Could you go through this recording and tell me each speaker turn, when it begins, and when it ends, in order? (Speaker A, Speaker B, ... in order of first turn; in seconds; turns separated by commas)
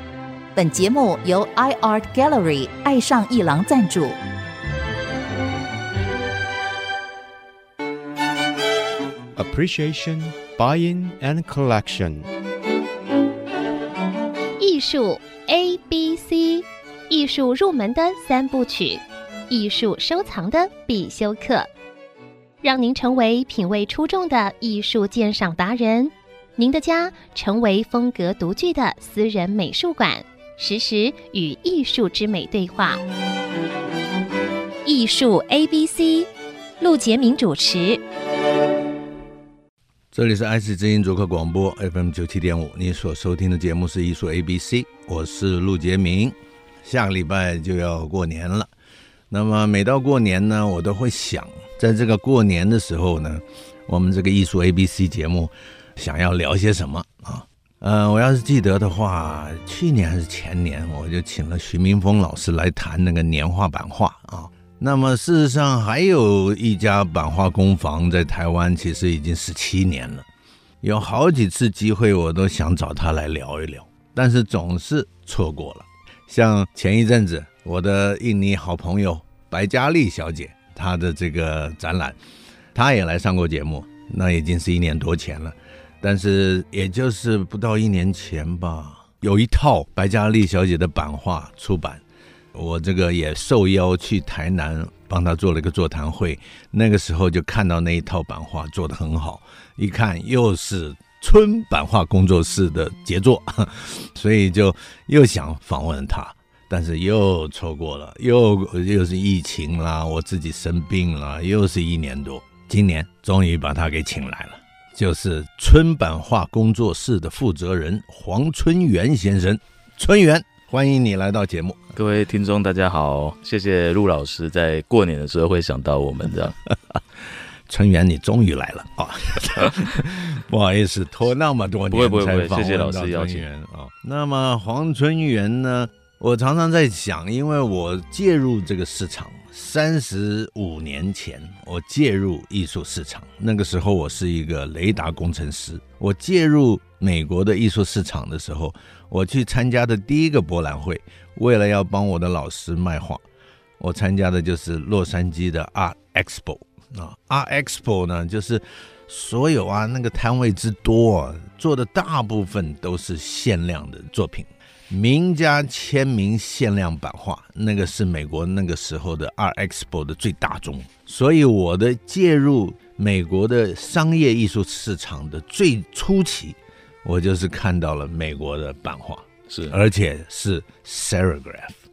Speaker A: 0.5-4.2, Speaker B: 9.3-12.3, Speaker C: 14.6-21.7, Speaker C: 22.6-33.0, Speaker C: 34.8-36.3, Speaker C: 36.8-38.0, Speaker D: 40.1-48.7, Speaker D: 49.3-70.3, Speaker D: 70.8-82.2, Speaker D: 82.7-92.0, Speaker D: 92.5-121.9, Speaker E: 121.9-126.6, Speaker D: 127.7-153.2, Speaker E: 131.9-133.5, Speaker D: 153.8-181.8, Speaker E: 179.5-179.8